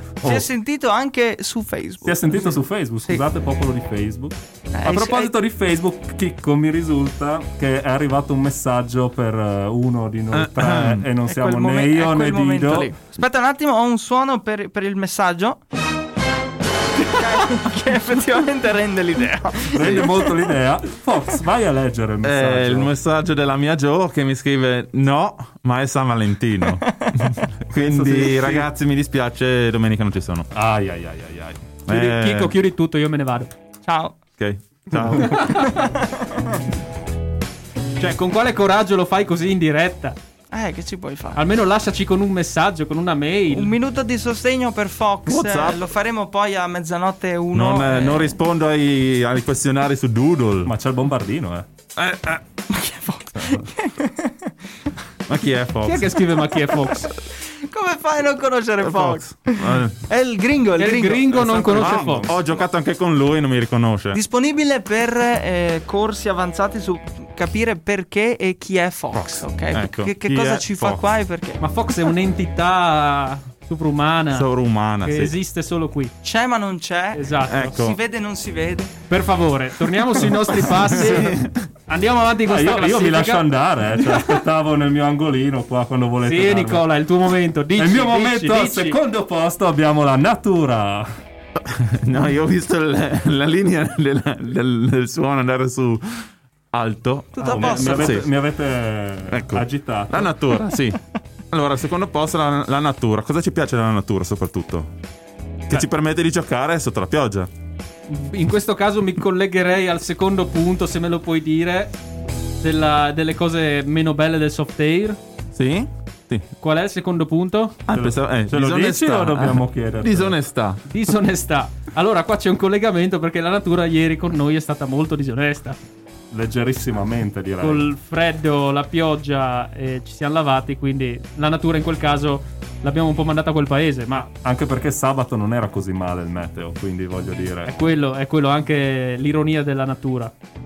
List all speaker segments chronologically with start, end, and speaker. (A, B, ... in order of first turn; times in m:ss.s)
0:00.2-0:00.4 A
0:00.2-0:03.2 B
0:02.0-0:12.9 C
0:04.7-0:05.3 B
0:10.3-0:11.1 A
0:11.2-0:15.6 B
0:17.0-0:20.3 B
0:19.7-0:22.9 C
0:22.2-0:30.5 A
0:27.0-0:27.3 B
0:27.7-0:28.7 C
0:30.5-0:31.6 C
0:31.9-0:32.6 A
0:31.9-0:33.5 D
0:33.8-0:34.2 B
0:34.4-0:35.6 A
0:35.3-0:35.6 D
0:35.6-0:36.1 B
0:38.0-0:40.2 D
0:40.5-0:41.4 B
0:41.4-0:43.7 D
0:43.5-0:48.4 B
0:45.2-0:45.9 A
0:47.5-0:50.7 A
0:50.6-0:51.6 C
0:52.0-0:52.4 A
0:52.7-0:54.5 B
0:55.3-0:56.2 A
0:55.8-0:57.1 D
0:56.5-1:01.3 B
0:58.8-1:00.0 A
1:00.8-1:02.3 D
1:01.2-1:02.4 C
1:01.7-1:04.2 A
1:04.1-1:11.6 B
1:09.1-1:11.1 A
1:11.6-1:14.5 D
1:14.3-1:15.3 A
1:15.0-1:16.1 D
1:16.2-1:18.9 B
1:17.1-1:17.8 D
1:17.5-1:18.0 A
1:19.1-1:23.5 D
1:20.9-1:21.6 A
1:22.5-1:26.9 C
1:26.2-1:29.0 D
1:27.8-1:31.1 C
1:31.6-1:38.3 A
1:37.4-1:38.2 B
1:37.4-1:40.4 C
1:39.3-1:44.9 A
1:45.7-1:47.5 A
1:48.1-1:51.9 D
1:52.6-1:55.2 D
1:55.6-1:56.5 A
1:56.6-1:57.8 D
1:57.9-2:00.8 A
1:57.9-2:00.4 C
2:00.9-2:05.8 D
2:06.3-2:07.9 C
2:07.6-2:14.3 D
2:14.4-2:17.7 C
2:17.6-2:20.3 D